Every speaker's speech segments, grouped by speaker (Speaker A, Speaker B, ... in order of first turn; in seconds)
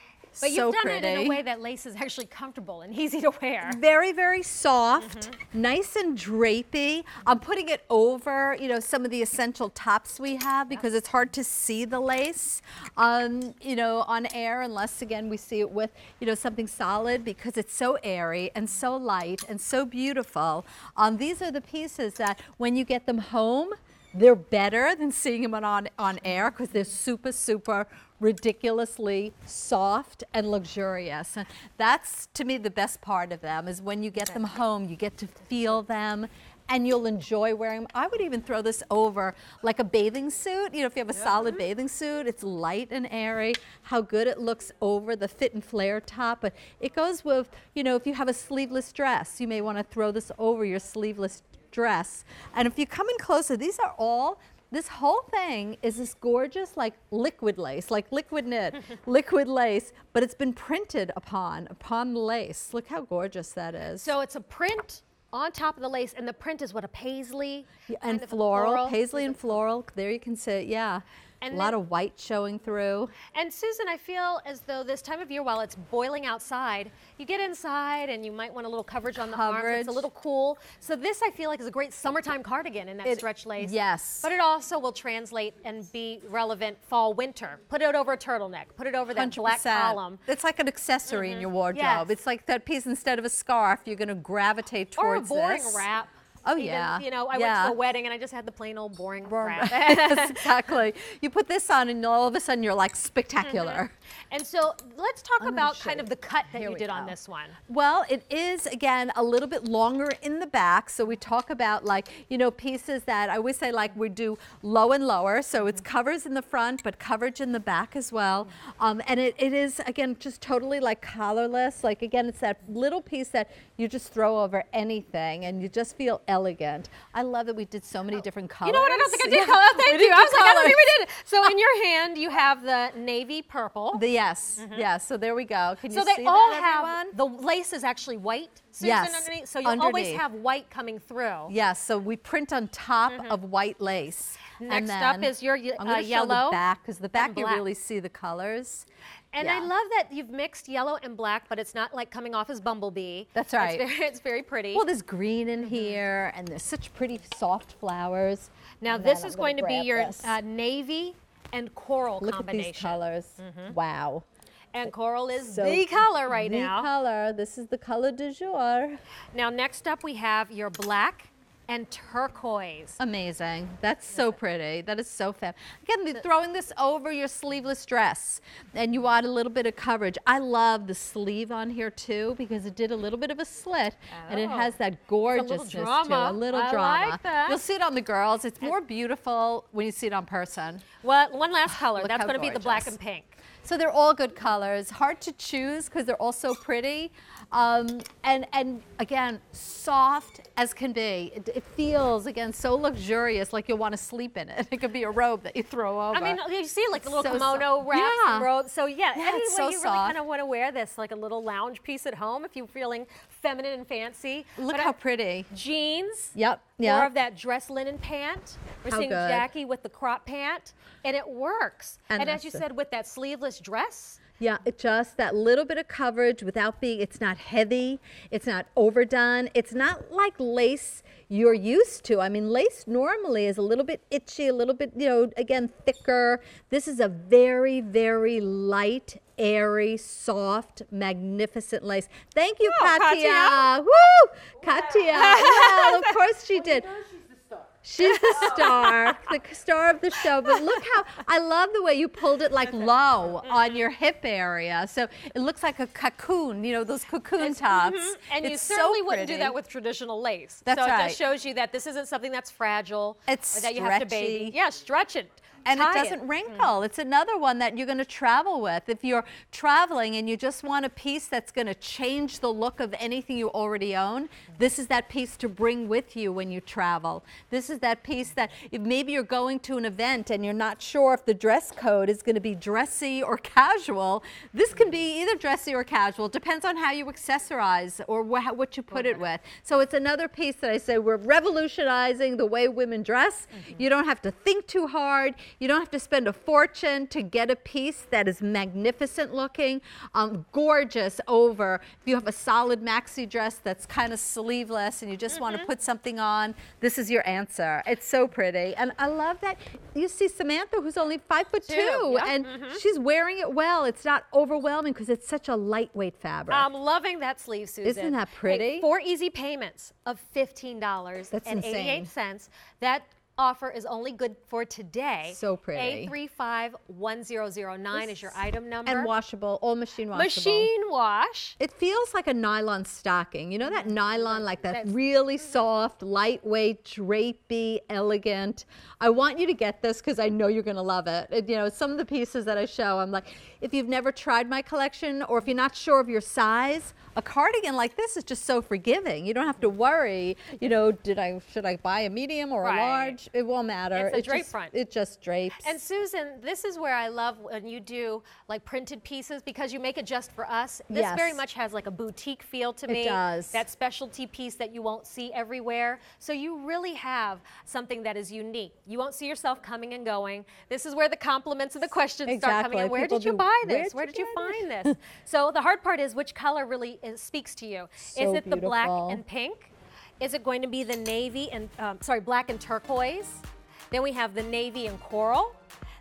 Speaker A: 0.3-1.4, 3.6-64.1, 67.9-73.1, 79.1-80.1, 83.0-84.3, 89.1-95.9, 96.4-97.8, 99.2-103.9, 105.4-107.1, 107.7-130.9, 133.9-137.2, 138.8-140.2, 141.5-148.8, 149.4-149.7, 153.3-153.8, 154.7-160.4, 162.2-164.2, 164.8-169.0, 173.0-190.8, 191.7-192.9, 193.6-206.4, 206.9-208.5, 209.1-210.2, 214.6-215.5, 216.3-217.1, 218.8-219.5, 222.1-222.6, 224.4-247.0, 247.8-259.6, 260.6-261.2, 263.3-264.6, 265.6-316.7, 317.8-318.9, 321.3-322.1, 325.3-326.1, 327.9-330.7, 331.6-355.7, 360.9-361.4, 362.9-363.6, 372.2-374.9, 378.1-379.2
Speaker B: 0.4-3.8, 5.0-5.3, 64.0-69.6, 71.4-71.8, 73.2-90.2, 91.1-92.1, 95.0-100.5, 103.4-107.6, 128.6-134.0, 134.6-134.8, 135.9-141.5, 143.1-143.4, 144.6-146.6, 147.1-147.6, 149.3-154.8, 155.6-156.0, 158.8-163.7, 164.7-166.9, 169.3-173.0, 184.2-184.7, 185.3-187.6, 191.0-193.3, 206.1-214.9, 215.5-224.2, 242.6-243.7, 245.1-246.2, 248.0-249.1, 250.5-250.8, 253.4-253.8, 257.4-266.7, 288.9-289.2, 305.3-305.7, 311.6-312.8, 316.5-329.1, 330.1-331.6, 333.6-334.9, 352.6-353.2, 353.9-354.7, 355.6-385.6